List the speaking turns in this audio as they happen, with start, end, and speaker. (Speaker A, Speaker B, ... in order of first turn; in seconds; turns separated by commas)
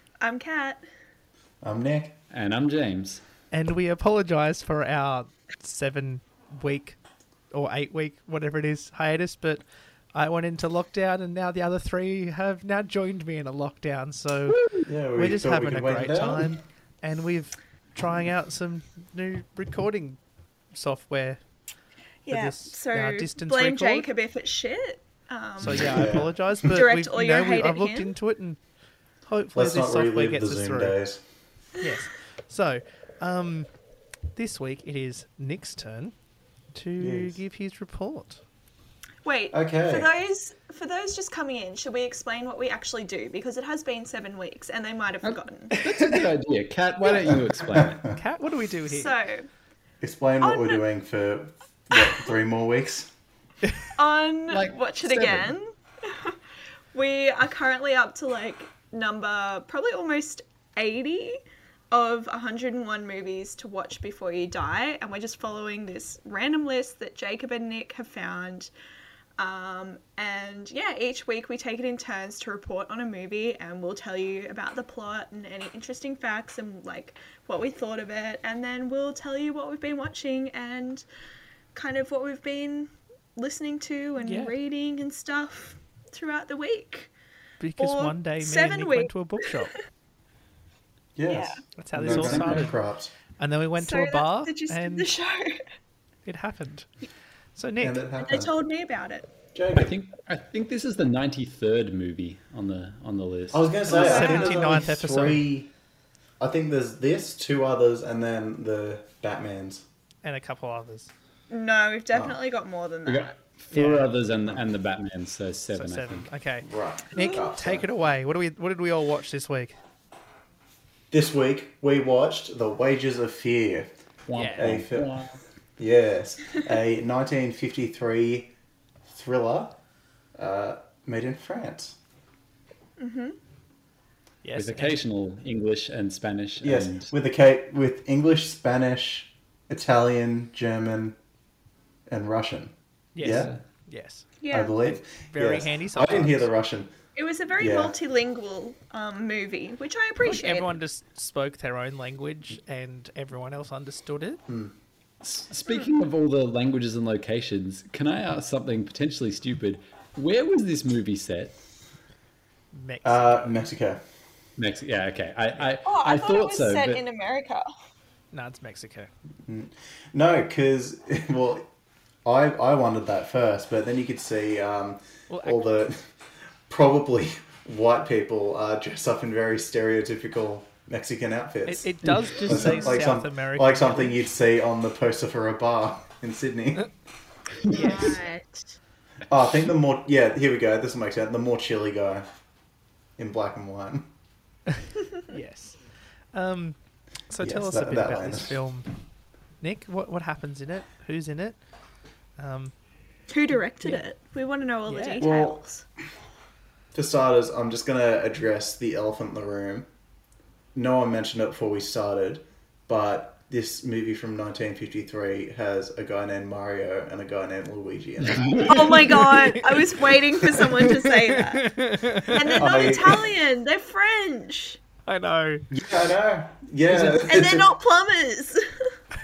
Speaker A: 0.2-0.8, Speaker B: 1.6-2.1, Speaker C: 2.3-3.2, Speaker D: 3.5-7.0, Speaker D: 7.5-9.6, Speaker D: 10.1-14.6, Speaker C: 14.5-14.9, Speaker B: 14.8-16.6, Speaker D: 15.1-20.2, Speaker D: 20.7-21.4, Speaker A: 22.2-28.1, Speaker D: 22.3-24.1, Speaker D: 25.6-28.6, Speaker B: 25.6-26.3, Speaker D: 29.2-31.0, Speaker B: 29.5-31.2, Speaker D: 31.8-33.7, Speaker D: 34.3-36.1, Speaker D: 36.7-38.4, Speaker B: 37.0-37.4, Speaker A: 39.2-45.8, Speaker B: 39.5-40.1, Speaker C: 45.2-48.1, Speaker D: 45.8-46.2, Speaker B: 47.7-48.1, Speaker D: 48.1-49.1, Speaker A: 48.9-49.5, Speaker B: 50.0-53.1, Speaker A: 50.4-50.8, Speaker A: 51.9-52.2, Speaker A: 54.0-56.4, Speaker C: 54.5-55.5, Speaker A: 56.9-61.4, Speaker A: 61.9-68.7, Speaker A: 69.4-81.0, Speaker A: 81.7-87.1, Speaker D: 84.2-84.5, Speaker D: 87.6-89.7, Speaker A: 87.8-89.1, Speaker B: 91.2-93.1, Speaker A: 91.2-91.6, Speaker D: 91.8-92.8, Speaker C: 92.0-92.7, Speaker D: 93.4-95.1, Speaker A: 93.8-95.6, Speaker D: 96.2-96.9, Speaker D: 97.5-98.0, Speaker B: 97.8-98.5, Speaker A: 98.2-99.3, Speaker B: 99.5-99.9, Speaker C: 99.7-104.2, Speaker B: 103.5-105.7, Speaker A: 103.9-104.7, Speaker D: 103.9-105.4, Speaker B: 106.4-109.8, Speaker D: 110.2-111.1, Speaker A: 111.5-113.4, Speaker C: 113.0-116.3, Speaker D: 113.7-114.1, Speaker D: 115.7-119.8, Speaker B: 116.6-117.8, Speaker A: 117.2-117.4, Speaker B: 121.1-123.9, Speaker C: 124.3-125.4, Speaker D: 124.3-124.7, Speaker B: 124.5-125.1, Speaker B: 125.8-128.5, Speaker B: 129.1-129.8, Speaker B: 130.4-132.0, Speaker A: 133.0-133.4, Speaker D: 134.4-135.0, Speaker C: 134.6-137.1, Speaker B: 136.6-141.2, Speaker B: 142.1-143.5, Speaker D: 143.1-144.3, Speaker C: 143.2-143.6, Speaker A: 144.4-144.8, Speaker B: 144.5-146.9, Speaker D: 144.8-146.5, Speaker A: 147.1-150.7, Speaker B: 147.6-147.9, Speaker D: 150.2-154.4, Speaker B: 154.5-154.7, Speaker C: 155.2-161.6, Speaker A: 155.7-156.0, Speaker D: 162.7-163.6, Speaker B: 163.0-164.0, Speaker C: 164.6-167.0, Speaker A: 165.8-167.7, Speaker D: 168.3-169.1, Speaker B: 169.4-171.7, Speaker B: 172.2-176.1, Speaker D: 175.3-175.6, Speaker B: 176.7-186.9, Speaker D: 181.7-184.3, Speaker C: 182.1-182.6, Speaker A: 187.7-188.7, Speaker D: 187.7-188.2, Speaker B: 189.3-192.2, Speaker B: 193.2-194.1, Speaker D: 195.3-195.8, Speaker D: 196.3-196.8, Speaker D: 197.3-198.9, Speaker B: 197.4-198.6, Speaker D: 199.6-201.6, Speaker D: 202.4-202.7, Speaker A: 203.3-205.8, Speaker D: 204.8-205.3, Speaker B: 205.2-205.6, Speaker B: 206.9-209.9, Speaker B: 210.7-219.1, Speaker C: 218.3-218.7, Speaker D: 218.6-220.1, Speaker A: 218.6-224.8, Speaker D: 220.6-222.6, Speaker B: 222.5-223.3, Speaker D: 225.1-225.7, Speaker B: 225.7-227.7, Speaker D: 226.9-227.3, Speaker A: 227.2-228.7